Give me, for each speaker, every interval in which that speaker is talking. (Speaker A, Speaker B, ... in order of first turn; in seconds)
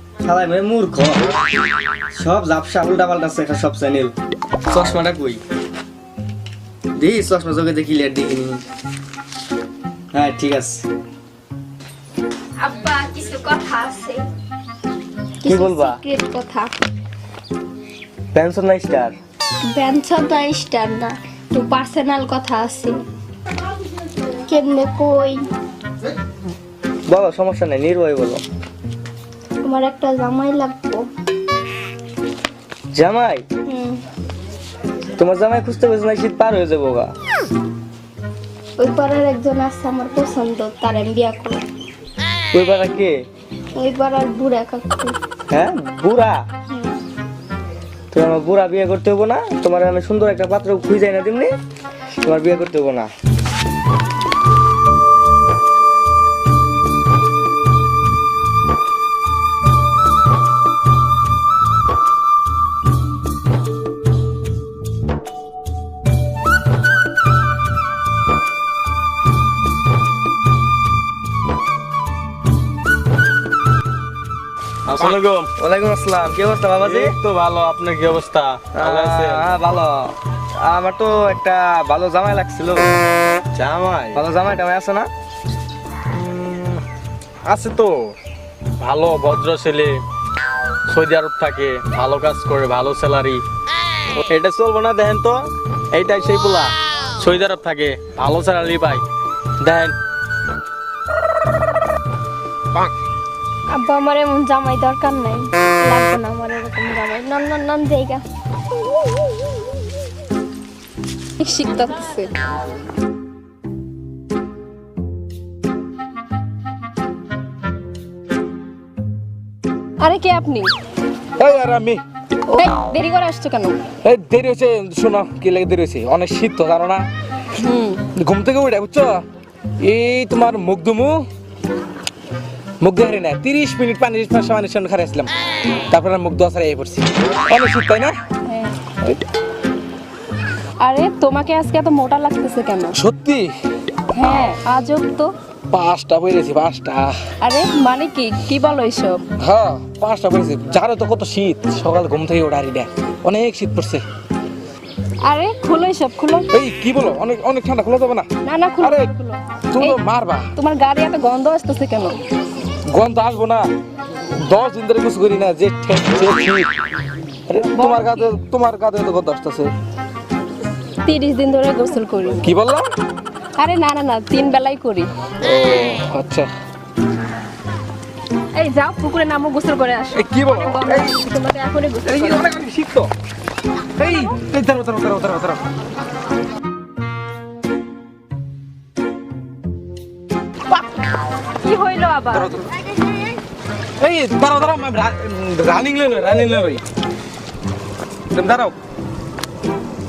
Speaker A: 0.2-1.3, 2.1-4.1, 4.7-5.4, 7.0-8.6, 10.1-10.8, 15.4-16.0, 18.3-19.1, 27.1-28.4, 32.9-33.5, 35.2-37.1, 42.5-43.2, 45.5-46.4, 48.1-51.5, 52.2-53.1, 75.0-77.2, 78.8-82.9, 84.1-85.1
Speaker B: 12.6-14.2, 15.4-16.7, 19.7-23.0, 24.5-25.5, 29.6-31.1, 33.7-34.0, 38.8-41.6, 43.8-45.1, 46.7-47.0, 103.7-108.2
Speaker C: 74.9-75.5, 76.8-79.5, 83.5-84.2, 86.1-86.8, 87.4-88.1, 88.8-90.0, 90.9-93.4, 94.3-99.0, 99.6-100.0
Speaker D: 111.4-112.4, 120.0-120.7, 122.5-123.8, 127.5-128.1, 138.4-138.8, 140.8-143.0, 144.1-145.3, 147.4-149.2, 155.2-156.5, 158.4-160.0, 160.6-162.2, 167.6-168.3, 171.0-172.5, 173.6-175.1, 178.5-182.4, 191.6-192.7
Speaker E: 121.4-122.0, 124.0-127.1, 128.1-129.2, 129.8-131.3, 132.8-135.3, 135.9-138.2, 143.0-143.5, 145.7-147.2, 149.4-154.0, 156.5-158.3, 158.8-159.1, 159.7-160.5, 162.9-163.7, 164.4-166.7, 167.5-169.7, 172.4-172.8, 175.4-176.5, 180.1-181.2, 182.1-183.1, 184.0-185.6, 192.3-192.7, 194.0-196.8, 198.3-198.8